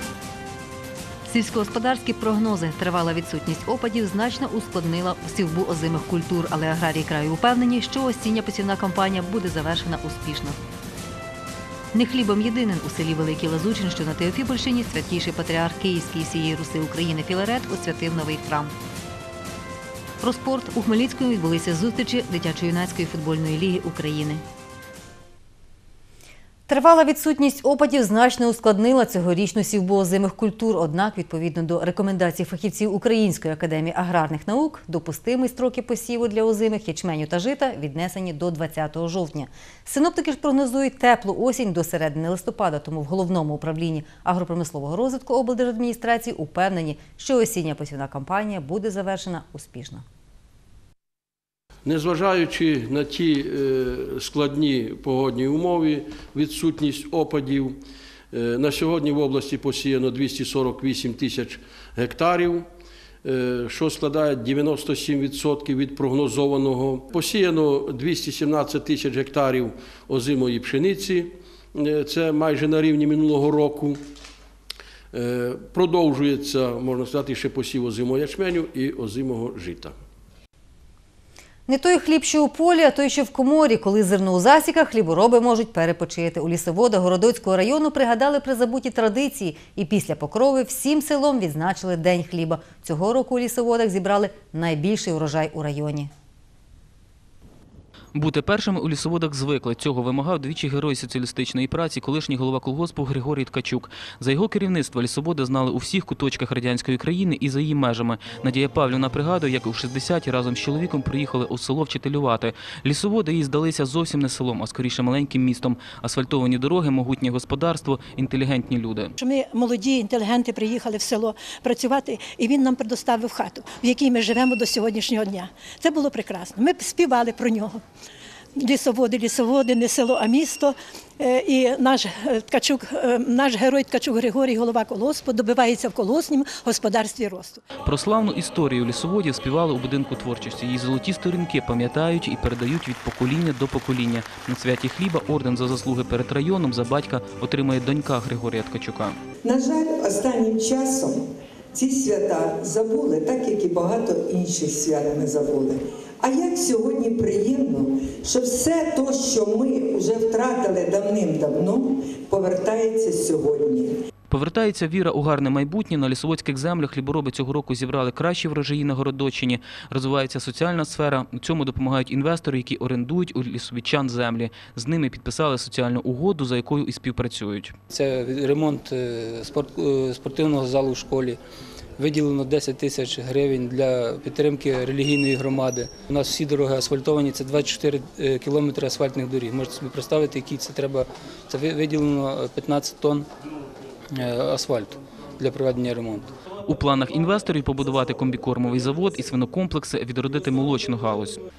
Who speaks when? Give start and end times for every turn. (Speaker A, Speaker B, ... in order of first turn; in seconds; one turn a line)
Speaker A: 1.3-10.6
Speaker A: 11.9-18.7
Speaker A: 20.2-24.4
Speaker A: 26.7-50.0
Speaker B: 51.9-57.8
Speaker B: 58.3-62.7
Speaker B: 63.2-74.0
Speaker B: 75.1-80.0
Speaker A: 81.7-96.1
Speaker C: 98.2-119.1
Speaker D: 119.2-127.8
Speaker D: 128.6-137.6
Speaker C: 137.8-149.2
Speaker E: 149.4-164.0
Speaker C: 164.3-177.8
Speaker F: 177.9-181.4
Speaker F: 182.0-193.3
Speaker F: 194.1-196.3
Speaker C: 196.7-201.4